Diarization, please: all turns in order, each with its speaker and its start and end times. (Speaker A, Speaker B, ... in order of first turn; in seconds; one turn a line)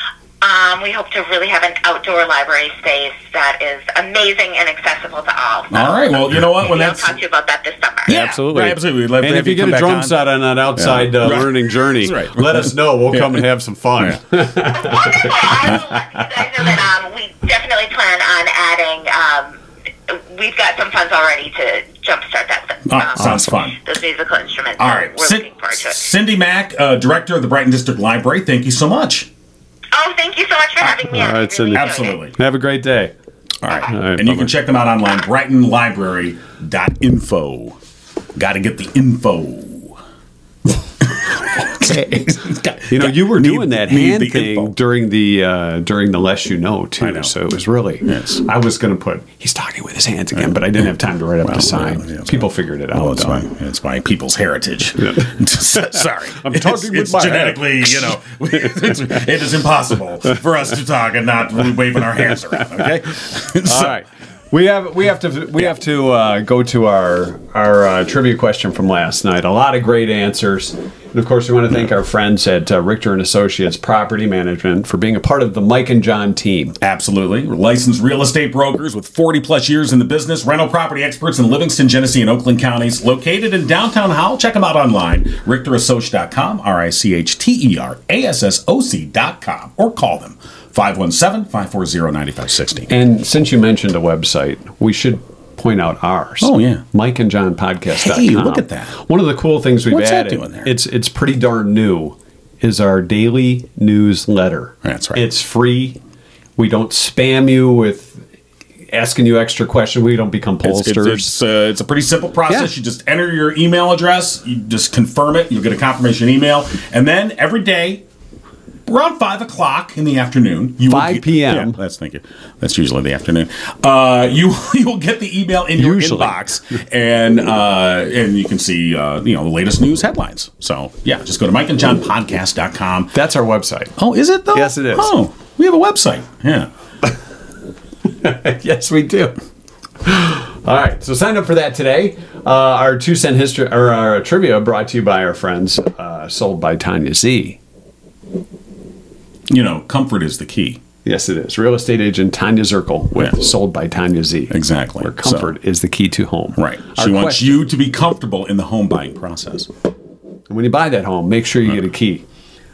Speaker A: 0.4-6.0
Speaker B: 5.7-7.2
Speaker A: 6.5-8.1
Speaker B: 8.1-10.2
Speaker C: 8.1-15.6
Speaker B: 10.8-13.4
Speaker A: 14.7-26.0
Speaker B: 22.9-23.8
Speaker C: 23.2-23.5
Speaker B: 24.8-29.3
Speaker A: 29.9-32.2
Speaker C: 31.0-33.1
Speaker B: 31.7-32.3
Speaker B: 33.6-37.8
Speaker C: 33.9-34.5
Speaker B: 38.4-40.0
Speaker B: 41.1-44.7
Speaker C: 42.9-53.5
Speaker B: 47.0-47.3
Speaker B: 48.0-48.4
Speaker B: 50.3-50.8
Speaker B: 51.4-63.9
Speaker C: 55.0-58.9
Speaker C: 63.6-76.8
Speaker B: 76.8-92.9
Speaker C: 92.9-106.0
Speaker B: 96.4-96.8
Speaker B: 97.9-98.9
Speaker B: 99.9-100.7
Speaker B: 104.8-105.2
Speaker C: 106.6-108.2
Speaker C: 108.9-111.3
Speaker B: 110.6-118.0
Speaker B: 118.9-133.1
Speaker C: 120.8-121.8
Speaker C: 125.8-126.4
Speaker C: 133.1-133.9
Speaker B: 134.0-136.7
Speaker C: 134.5-135.1
Speaker C: 138.1-139.4
Speaker C: 140.0-147.6
Speaker B: 149.5-150.8
Speaker C: 151.0-157.6
Speaker B: 154.5-155.5
Speaker B: 156.6-159.7
Speaker C: 160.5-162.2